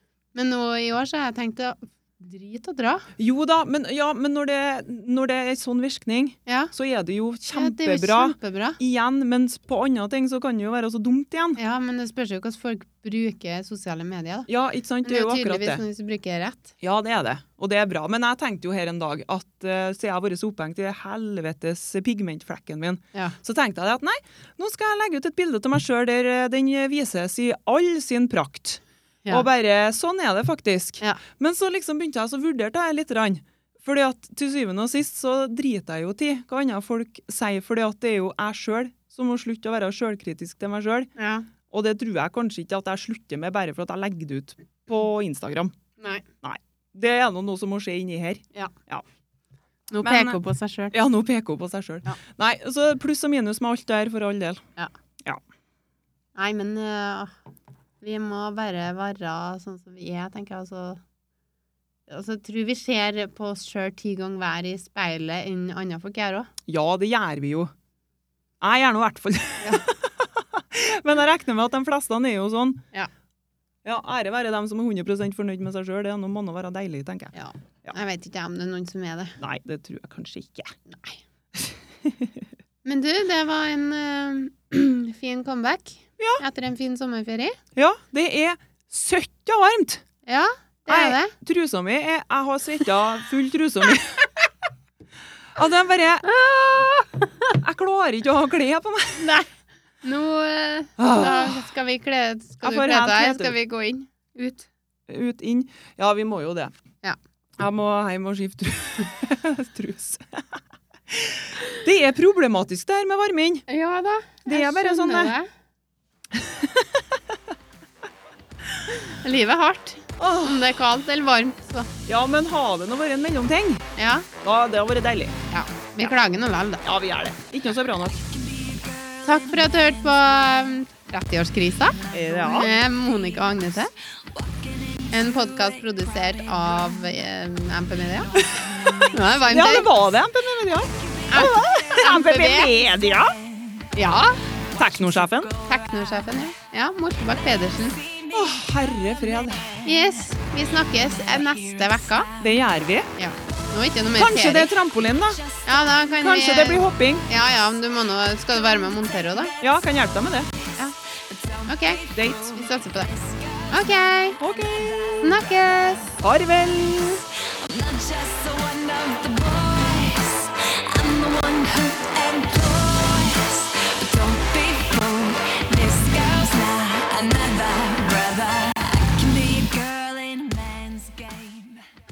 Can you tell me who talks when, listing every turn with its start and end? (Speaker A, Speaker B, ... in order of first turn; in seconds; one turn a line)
Speaker A: 0.3-3.1
Speaker B: 3.2-11.6
Speaker A: 6.5-6.7
Speaker A: 7.5-8.8
Speaker A: 11.6-14.5
Speaker B: 14.5-15.8
Speaker A: 15.0-16.7
Speaker B: 16.8-41.1
Speaker A: 41.2-41.5
Speaker B: 41.7-45.8
Speaker A: 46.0-46.2
Speaker B: 46.4-49.0
Speaker A: 49.9-50.9
Speaker B: 50.0-50.4
Speaker B: 50.9-54.6
Speaker A: 56.4-57.4
Speaker A: 58.0-61.0
Speaker A: 62.1-66.5
Speaker B: 66.7-67.7
Speaker B: 68.6-72.8
Speaker A: 69.6-69.9
Speaker B: 73.8-77.3
Speaker A: 77.3-79.4
Speaker B: 79.4-80.8
Speaker A: 80.9-81.2
Speaker B: 81.6-82.5
Speaker A: 82.8-87.6
Speaker B: 86.2-86.4
Speaker B: 87.8-90.0
Speaker A: 90.3-91.3
Speaker B: 90.9-94.3
Speaker B: 95.5-96.3
Speaker A: 96.2-97.6
Speaker B: 97.6-99.3
Speaker A: 99.2-99.5
Speaker A: 100.0-104.7
Speaker B: 101.0-101.6
Speaker B: 102.6-103.6
Speaker B: 105.1-106.7
Speaker B: 107.6-113.7
Speaker A: 113.7-115.5
Speaker B: 114.5-115.3
Speaker B: 116.3-117.4
Speaker A: 118.9-121.9
Speaker B: 120.2-120.7
Speaker B: 122.1-123.8
Speaker A: 124.0-124.3
Speaker B: 124.4-125.4
Speaker A: 125.5-126.9
Speaker B: 126.8-128.3
Speaker C: 128.3-130.4
Speaker A: 129.2-132.0
Speaker C: 132.0-133.6
Speaker B: 132.1-132.7
Speaker A: 132.5-133.9
Speaker C: 134.2-137.1
Speaker A: 135.1-138.4
Speaker C: 138.3-140.0
Speaker B: 138.4-138.7
Speaker A: 139.0-139.9
Speaker B: 139.5-143.3
Speaker C: 140.9-143.9
Speaker A: 141.3-142.7
Speaker A: 144.0-144.4
Speaker C: 144.7-146.3
Speaker B: 144.8-145.5
Speaker A: 145.7-148.0
Speaker C: 147.7-152.5
Speaker B: 148.3-149.7
Speaker A: 149.8-152.3
Speaker B: 152.4-153.1
Speaker A: 153.2-154.8
Speaker B: 154.2-155.4
Speaker C: 155.3-155.7
Speaker A: 155.7-159.5
Speaker B: 156.2-157.3
Speaker B: 159.6-160.5
Speaker C: 161.0-166.2
Speaker A: 161.7-163.1
Speaker B: 162.1-162.5
Speaker A: 163.7-164.4
Speaker B: 164.4-165.2
Speaker A: 165.2-166.1
Speaker B: 166.2-167.2
Speaker C: 166.9-181.9